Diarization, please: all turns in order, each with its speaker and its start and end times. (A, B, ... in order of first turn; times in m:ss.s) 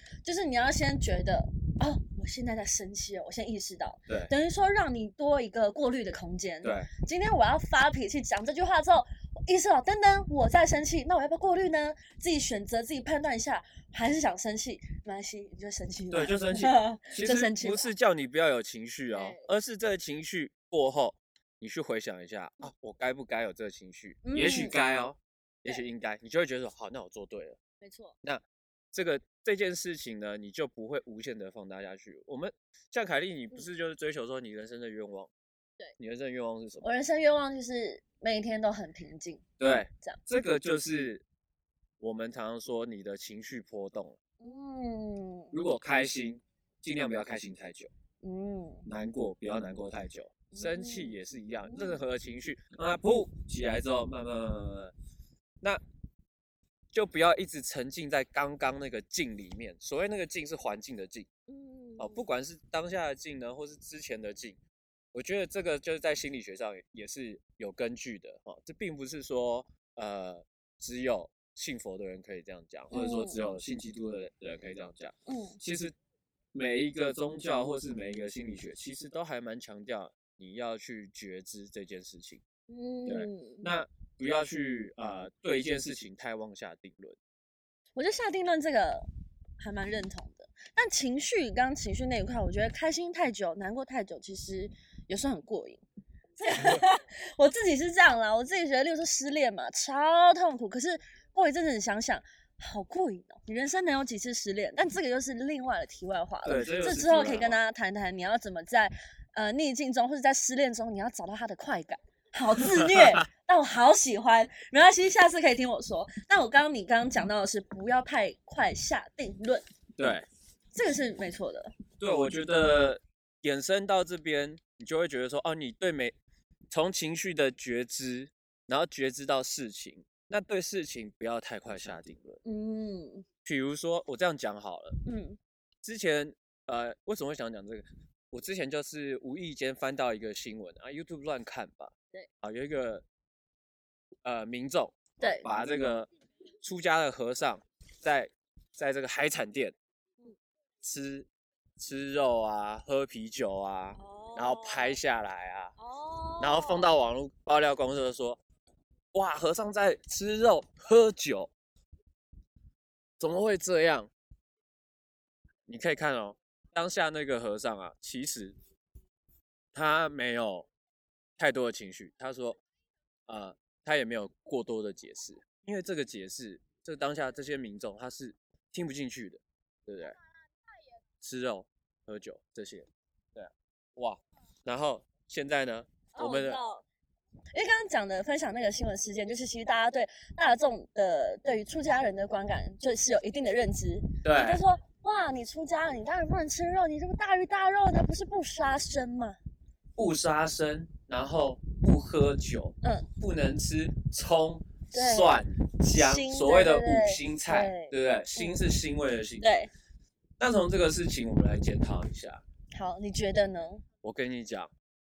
0:00.2-0:17.9 A
0:06.6-0:06.9 B
0:16.1-0:27.6 B
0:19.1-0:19.5 A
0:24.2-0:24.8 A
0:27.8-0:28.2 A
0:28.2-0:35.3 B
0:36.0-0:36.9 B
0:36.8-0:39.4 A
0:39.6-0:41.2 B
0:42.0-0:44.2 B
0:44.4-0:45.5 A
0:45.5-0:47.9 B
0:48.2-0:48.9 A
0:48.9-0:54.9 B
0:50.5-0:51.2 A
0:51.7-0:52.0 A
0:56.9-1:01.3 B
1:01.5-1:02.3 A
1:02.0-1:04.6 B
1:05.1-1:15.9 B
1:12.9-1:13.4 A
1:15.3-1:15.6 A
1:16.5-1:22.4 B
1:22.7-1:23.7 A
1:23.1-1:27.2 B
1:28.0-1:29.1 A
1:29.6-1:35.8 A
1:36.4-1:59.6 A
1:46.4-1:47.6 B
1:52.6-1:53.2 B
2:00.0-2:00.3 B
2:00.7-2:01.7 A
2:02.0-2:06.2 B
2:06.7-2:12.4 B
2:12.4-2:13.2 A
2:13.4-2:15.0 B
2:15.1-2:15.4 A
2:15.8-2:23.0 B
2:24.2-2:26.1 B
2:25.2-2:25.5 A
2:26.6-2:29.8 B
2:30.8-2:35.7 B
2:34.0-2:35.0 A
2:35.8-2:36.9 A
2:36.4-2:38.4 B
2:39.1-2:41.5 B
2:43.2-2:44.1 B
2:45.7-2:48.6 B
2:49.7-2:50.7 B
2:51.4-2:52.6 B
2:53.3-3:00.2 B
3:01.2-3:06.6 B
3:06.1-3:06.8 A
3:07.5-3:19.4 A
3:14.2-3:14.6 B
3:20.0-3:29.5 B
3:22.8-3:23.1 A
3:24.9-3:28.6 A
3:29.4-3:29.7 A
3:30.4-3:32.4 B
3:32.7-3:33.8 A
3:34.0-3:34.7 B